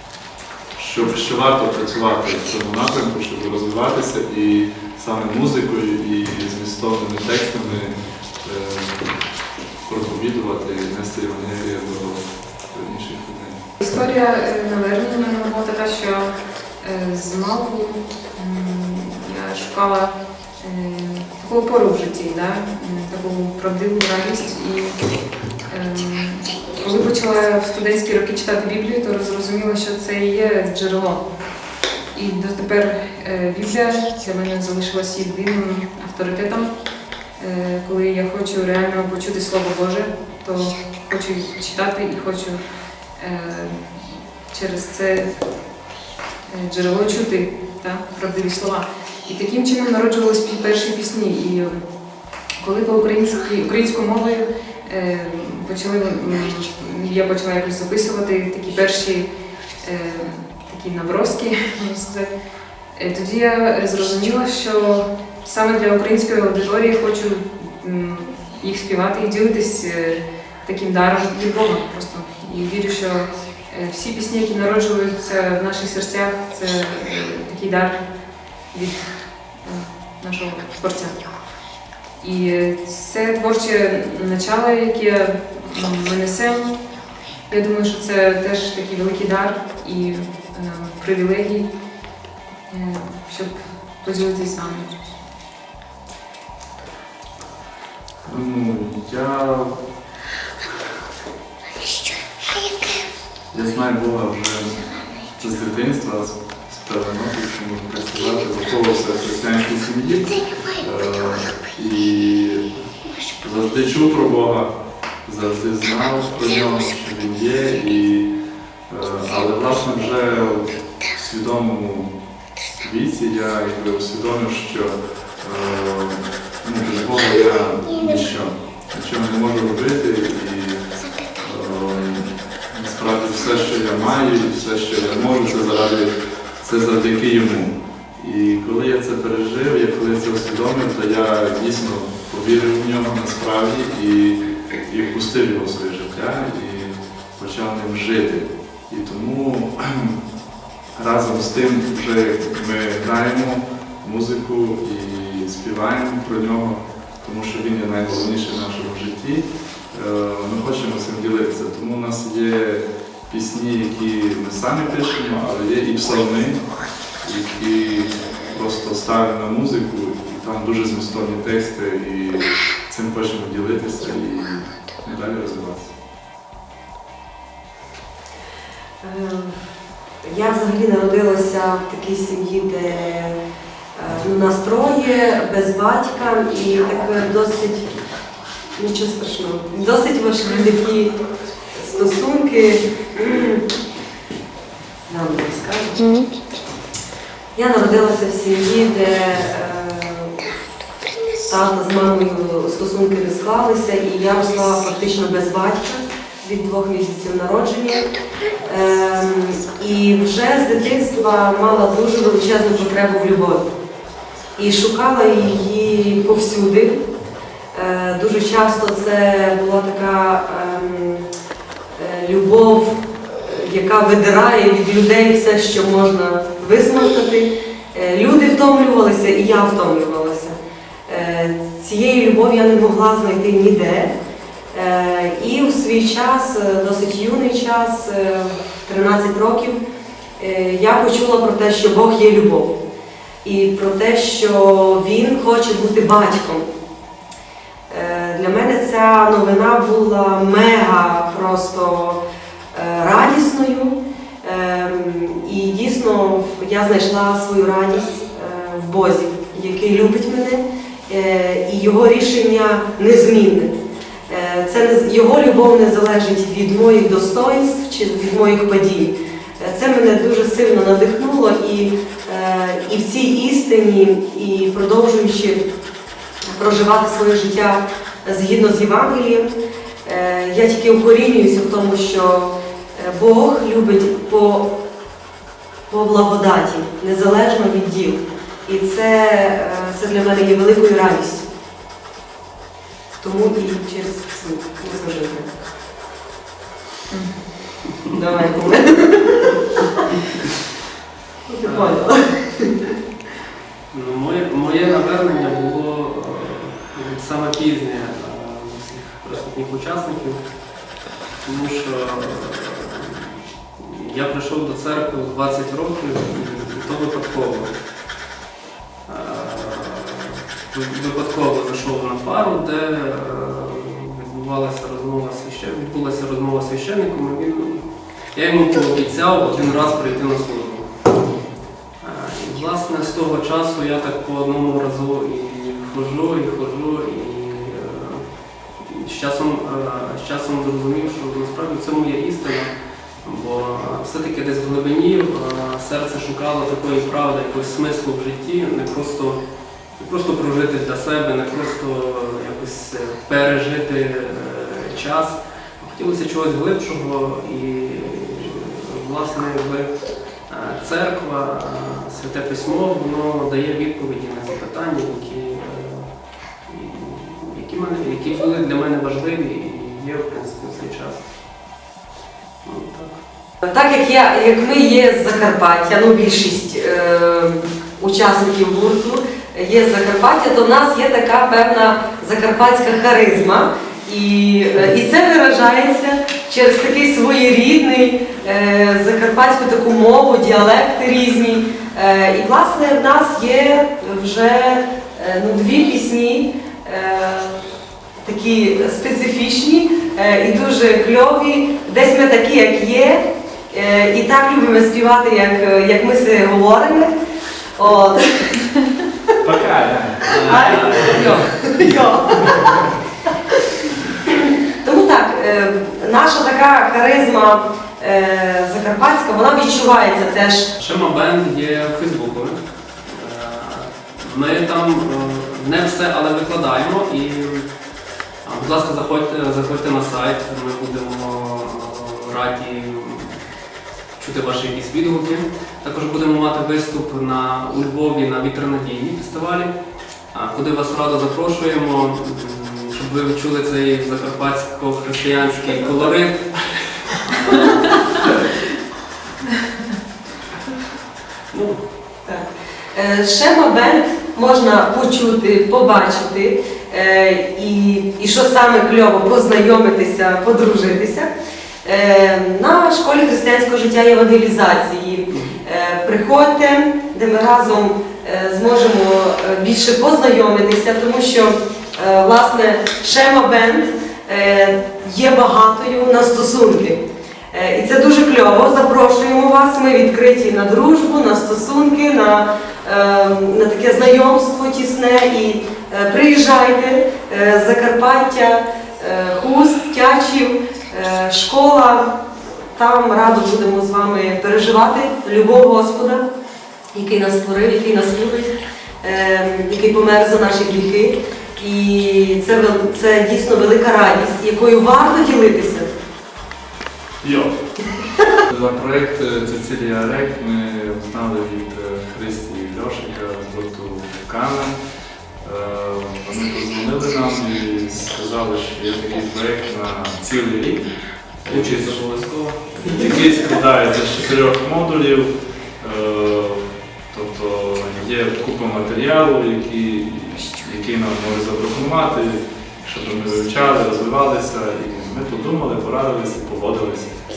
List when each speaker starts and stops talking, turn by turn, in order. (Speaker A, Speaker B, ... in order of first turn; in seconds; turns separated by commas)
Speaker A: 0.8-9.0, Speaker A: 9.8-13.6, Speaker B: 13.8-25.0, Speaker B: 25.7-31.2, Speaker B: 32.1-36.7, Speaker B: 37.4-42.6, Speaker B: 43.2-45.4, Speaker B: 46.5-51.9, Speaker B: 52.6-62.3, Speaker B: 62.9-78.0, Speaker B: 78.7-79.1, Speaker B: 79.6-81.2, Speaker B: 82.2-86.8, Speaker B: 87.5-91.7, Speaker B: 92.7-94.9, Speaker A: 98.2-99.8, Speaker A: 103.5-112.7, Speaker A: 113.4-114.7, Speaker A: 115.2-118.3, Speaker A: 118.9-122.1, Speaker A: 122.8-130.8, Speaker A: 131.4-150.2, Speaker A: 150.9-166.6, Speaker A: 167.2-175.9, Speaker C: 179.0-179.6, Speaker C: 180.2-183.4, Speaker C: 183.9-187.9, Speaker C: 188.8-191.1, Speaker B: 190.4-190.7, Speaker C: 191.7-193.7, Speaker C: 195.1-196.0, Speaker B: 196.0-196.3, Speaker C: 197.6-200.3, Speaker C: 201.5-208.1, Speaker C: 208.6-213.7, Speaker C: 214.6-217.0, Speaker C: 217.7-221.3, Speaker C: 221.9-234.1, Speaker C: 234.7-239.8, Speaker C: 240.4-242.7, Speaker C: 243.4-246.7, Speaker C: 247.9-252.2, Speaker C: 252.7-263.7, Speaker C: 264.3-275.7, Speaker C: 276.4-284.7, Speaker C: 285.9-291.5, Speaker C: 293.2-295.5, Speaker B: 297.1-297.4, Speaker C: 298.1-299.5, Speaker C: 301.5-302.9, Speaker D: 301.6-302.0, Speaker D: 303.9-310.4, Speaker D: 311.4-317.7, Speaker D: 319.1-330.9, Speaker D: 332.0-338.2, Speaker D: 338.8-349.4, Speaker D: 349.9-359.9, Speaker D: 360.5-371.2, Speaker D: 372.6-373.2, Speaker C: 373.6-397.6, Speaker C: 398.2-407.1, Speaker C: 407.8-408.8, Speaker A: 409.4-410.4, Speaker D: 410.3-411.4, Speaker C: 410.3-420.7, Speaker D: 420.8-427.7, Speaker D: 428.4-433.4, Speaker D: 434.2-439.7, Speaker D: 440.3-448.4, Speaker D: 451.5-451.8, Speaker C: 452.2-461.3, Speaker C: 461.8-492.2, Speaker D: 465.3-465.6, Speaker C: 492.7-496.2, Speaker C: 496.9-505.9, Speaker A: 507.2-507.6, Speaker A: 508.5-514.7, Speaker A: 515.4-520.9, Speaker A: 521.4-522.0, Speaker D: 521.5-523.1, Speaker A: 522.8-537.1